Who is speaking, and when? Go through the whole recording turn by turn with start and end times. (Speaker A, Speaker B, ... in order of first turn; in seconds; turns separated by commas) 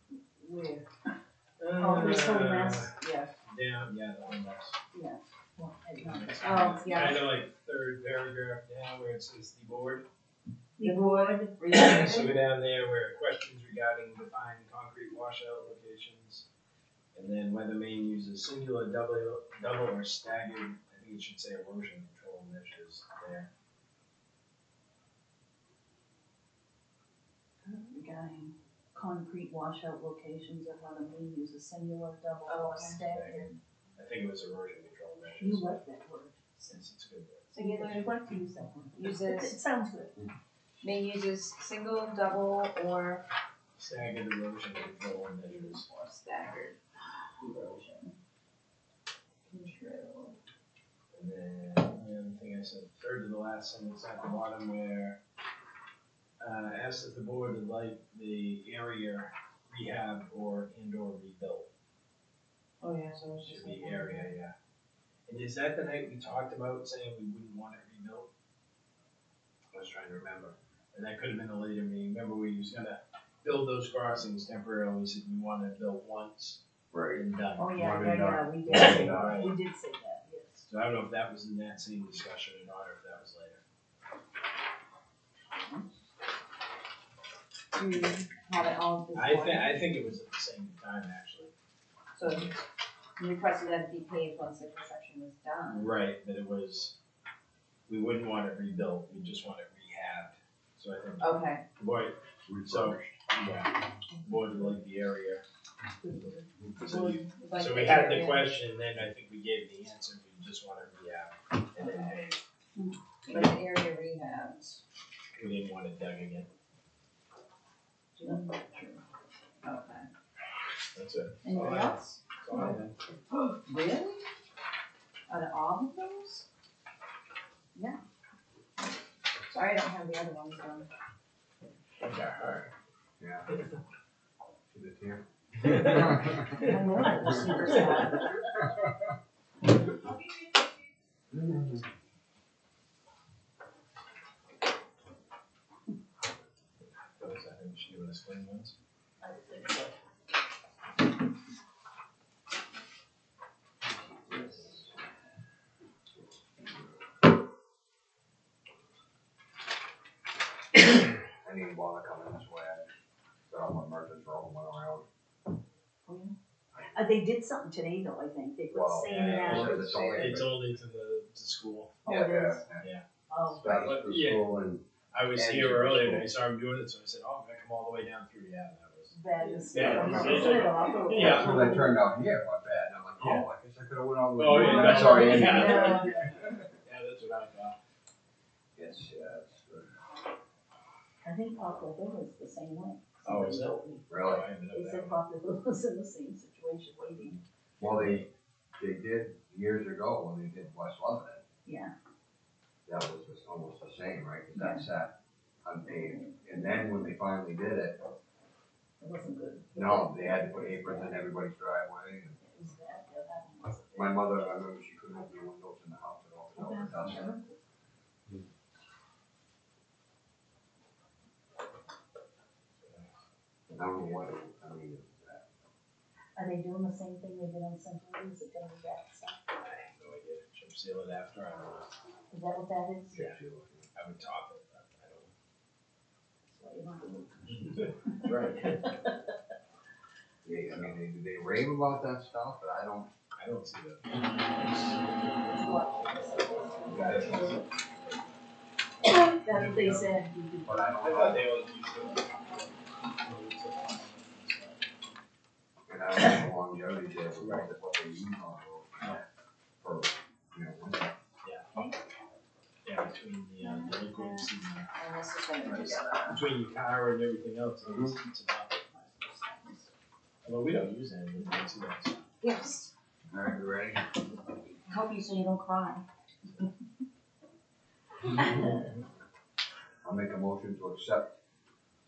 Speaker A: 0.4-0.8, Speaker B: 1.6-2.9, Speaker C: 1.8-2.9, Speaker A: 3.0-3.3, Speaker B: 3.5-4.8, Speaker C: 4.9-7.1, Speaker B: 6.0-10.1, Speaker A: 6.4-7.2, Speaker C: 10.8-11.5, Speaker A: 10.8-12.4, Speaker B: 11.7-16.5, Speaker B: 17.1-23.5, Speaker C: 27.7-33.6, Speaker A: 32.5-33.1, Speaker B: 33.1-35.8, Speaker C: 35.4-36.5, Speaker B: 36.6-37.6, Speaker A: 37.5-38.2, Speaker C: 37.5-40.2, Speaker A: 39.0-39.6, Speaker A: 40.8-43.3, Speaker B: 43.8-45.9, Speaker A: 45.5-46.8, Speaker C: 47.4-48.1, Speaker A: 49.5-50.4, Speaker B: 51.1-55.2, Speaker B: 56.4-61.7, Speaker A: 62.8-64.3, Speaker B: 63.4-64.5, Speaker B: 65.3-68.3, Speaker B: 69.7-76.6, Speaker D: 76.9-77.2, Speaker B: 77.1-77.8, Speaker C: 77.6-80.6, Speaker D: 77.8-79.5, Speaker B: 78.7-79.5, Speaker B: 80.7-83.6, Speaker A: 87.8-89.8, Speaker B: 89.1-91.5, Speaker A: 92.1-92.6, Speaker A: 93.2-95.9, Speaker B: 95.7-97.0, Speaker B: 97.9-105.4, Speaker A: 101.2-101.6, Speaker D: 102.5-103.2, Speaker C: 106.0-107.3, Speaker B: 106.8-112.4, Speaker A: 107.3-108.5, Speaker A: 113.2-114.8, Speaker B: 115.4-116.5, Speaker A: 118.2-118.6, Speaker C: 118.2-119.0, Speaker A: 119.6-120.1, Speaker B: 120.9-123.0, Speaker A: 121.4-122.7, Speaker A: 123.3-124.3, Speaker A: 125.3-126.5, Speaker A: 129.5-130.9, Speaker B: 132.0-132.7, Speaker D: 133.2-133.5, Speaker B: 133.5-133.8, Speaker D: 134.7-136.7, Speaker B: 135.6-136.8, Speaker C: 136.6-138.5, Speaker A: 137.1-138.2, Speaker B: 137.7-138.0, Speaker A: 140.1-140.6, Speaker D: 141.3-141.8, Speaker B: 147.2-148.8, Speaker C: 149.2-149.9, Speaker D: 161.4-162.9, Speaker D: 163.5-165.1, Speaker C: 166.1-166.3, Speaker C: 166.9-170.1, Speaker D: 168.7-170.5, Speaker B: 169.1-171.9, Speaker C: 172.1-172.6, Speaker D: 172.1-172.9, Speaker B: 172.8-173.1, Speaker C: 173.3-173.7, Speaker D: 173.6-176.3, Speaker B: 173.6-174.5, Speaker B: 175.1-181.7, Speaker C: 179.1-182.0, Speaker D: 179.7-186.5, Speaker A: 180.2-181.1, Speaker B: 183.2-183.5, Speaker B: 184.3-187.8, Speaker C: 184.4-186.2, Speaker D: 188.8-189.9, Speaker C: 191.2-194.0, Speaker B: 193.2-195.2, Speaker D: 194.1-194.5, Speaker C: 194.7-197.4, Speaker D: 197.8-201.4, Speaker B: 197.8-198.3, Speaker C: 201.7-201.9, Speaker D: 202.9-208.1, Speaker C: 204.6-204.9, Speaker C: 205.9-206.3, Speaker C: 209.0-211.2, Speaker D: 209.7-212.4, Speaker C: 212.4-214.7, Speaker D: 213.9-217.4, Speaker C: 216.6-217.4, Speaker B: 222.8-223.1, Speaker D: 223.7-225.5, Speaker C: 226.4-229.4, Speaker B: 229.6-231.9, Speaker C: 232.3-233.2, Speaker D: 233.1-233.9, Speaker B: 233.9-235.3, Speaker C: 236.5-238.3, Speaker B: 237.6-239.0, Speaker D: 240.4-243.1, Speaker B: 240.7-240.9, Speaker B: 243.4-245.0, Speaker C: 245.5-247.6, Speaker B: 246.9-247.6, Speaker D: 246.9-247.6, Speaker C: 249.0-250.9, Speaker D: 249.5-250.1, Speaker D: 250.6-251.4, Speaker B: 250.9-254.8, Speaker D: 255.9-259.2, Speaker B: 257.4-257.7, Speaker D: 259.8-261.1, Speaker B: 261.4-261.8, Speaker B: 262.9-264.9, Speaker A: 263.6-266.4, Speaker B: 265.7-269.4, Speaker D: 267.9-268.1, Speaker A: 269.4-269.9, Speaker B: 270.4-272.3, Speaker A: 272.4-272.9, Speaker D: 273.3-274.0, Speaker A: 274.9-276.1, Speaker D: 280.0-281.4